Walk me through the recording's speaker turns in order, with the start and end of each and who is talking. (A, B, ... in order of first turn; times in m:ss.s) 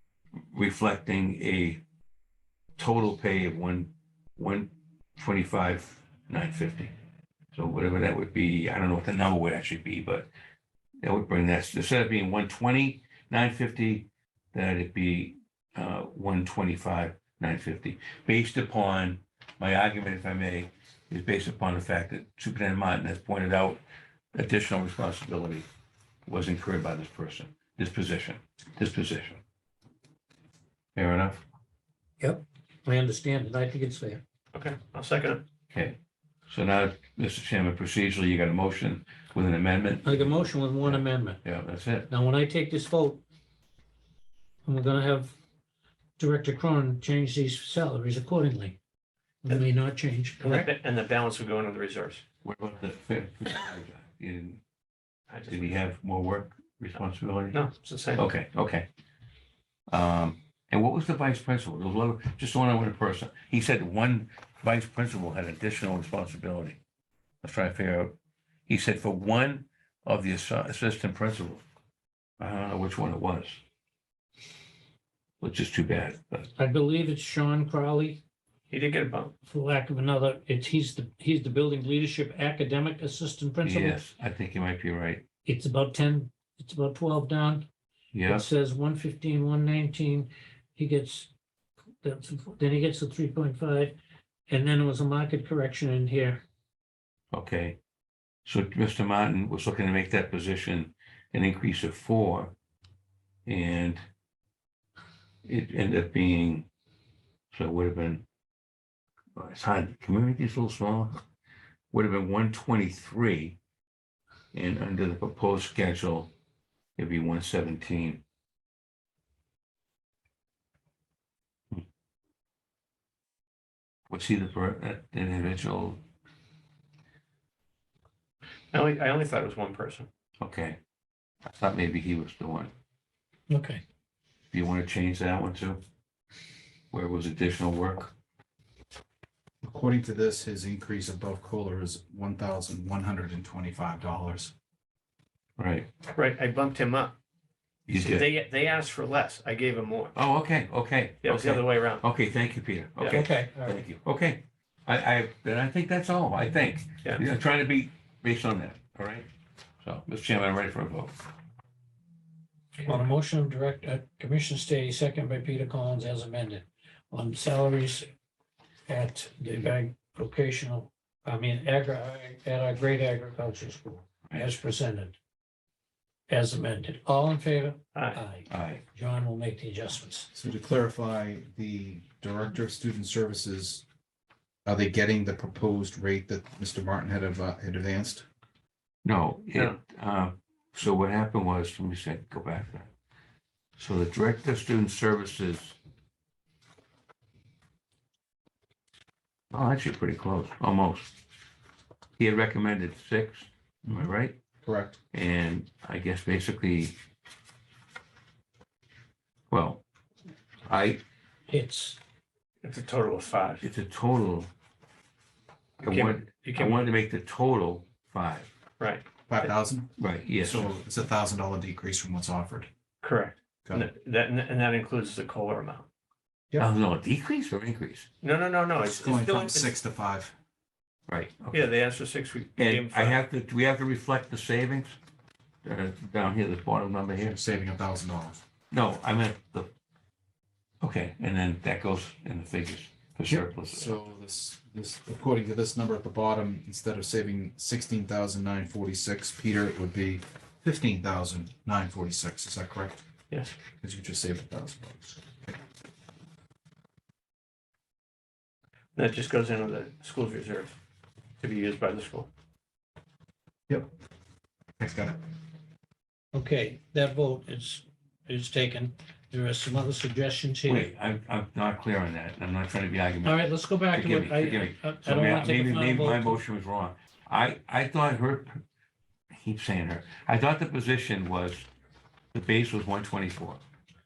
0:00.5-0:01.8 A
0:02.8-0:06.9 A
0:07.5-0:10.3 A
0:11.0-0:23.8 A
0:24.3-0:25.7 A
0:26.3-0:29.4 A
0:31.0-0:31.4 A
0:32.2-0:34.2 B
0:34.5-0:35.4 C
0:35.7-0:42.1 A
0:40.0-0:41.4 B
0:42.1-0:43.2 B
0:44.6-0:45.4 B
0:46.2-0:48.8 B
0:49.4-0:50.7 B
0:50.4-0:52.2 C
0:52.4-0:54.6 A
0:55.3-0:55.8 C
0:55.5-0:57.6 A
0:57.5-0:58.3 C
0:58.2-0:58.9 A
0:59.9-1:06.8 A
1:07.4-1:08.2 A
1:08.7-1:11.6 A
1:12.4-1:13.6 A
1:15.4-1:16.5 A
1:16.6-1:18.2 B
1:18.7-1:19.3 C
1:19.5-1:24.0 B
1:23.6-1:25.2 A
1:25.5-1:27.7 B
1:28.1-1:28.5 A
1:28.3-1:31.3 B
1:32.0-1:34.0 B
1:34.5-1:36.4 B
1:37.3-1:37.8 A
1:38.4-1:42.5 A
1:43.5-1:44.0 A
1:45.4-1:46.7 A
1:47.5-1:48.2 A
1:49.4-1:51.2 A
1:51.9-1:53.6 A
1:54.5-1:56.3 A
1:57.0-1:58.2 A
2:04.1-2:06.0 A
2:08.7-2:10.1 C
2:10.4-2:10.8 A
2:11.4-2:12.7 A
2:13.5-2:13.8 B
2:14.5-2:15.8 A
2:16.9-2:18.1 A
2:19.6-2:24.5 D
2:25.6-2:25.9 A
2:26.1-2:27.2 C
2:27.9-2:28.3 A
2:27.9-2:30.2 C
2:30.2-2:39.3 A
2:31.2-2:32.0 C
2:33.0-2:33.3 C
2:33.6-2:33.8 B
2:39.8-2:41.3 A
2:42.8-2:48.1 B
2:48.9-2:55.2 B
2:56.3-3:00.3 B
2:58.0-2:58.2 C
2:58.5-2:58.8 A
3:00.3-3:03.8 D
3:04.6-3:08.2 D
3:09.0-3:12.9 A
3:13.8-3:15.8 A
3:19.5-3:21.1 A
3:22.2-3:24.4 A
3:24.6-3:25.0 D
3:25.1-3:27.0 A
3:29.5-3:29.8 A
3:30.7-3:31.0 A
3:31.5-3:32.0 B
3:32.6-3:33.6 C
3:33.6-3:34.5 A
3:35.8-3:37.0 C
3:35.8-3:38.5 A
3:38.8-3:39.5 C
3:39.3-3:42.7 D
3:40.0-3:40.8 A
3:43.0-3:45.9 C
3:46.6-3:48.1 A
3:48.2-3:49.7 C
3:48.8-3:50.4 D
3:51.1-3:51.7 A
3:51.5-3:53.2 C
3:52.6-3:55.0 A
3:55.6-3:57.4 A
3:57.3-3:58.4 D
3:58.7-3:59.7 A
4:00.8-4:03.9 A
4:03.3-4:13.0 D
4:13.8-4:15.6 D
4:19.0-4:20.8 C
4:21.4-4:22.3 C
4:24.8-4:25.2 D
4:26.3-4:30.9 B
4:30.7-4:38.6 A
4:33.2-4:36.4 B
4:39.3-4:41.7 A
4:42.3-4:43.6 A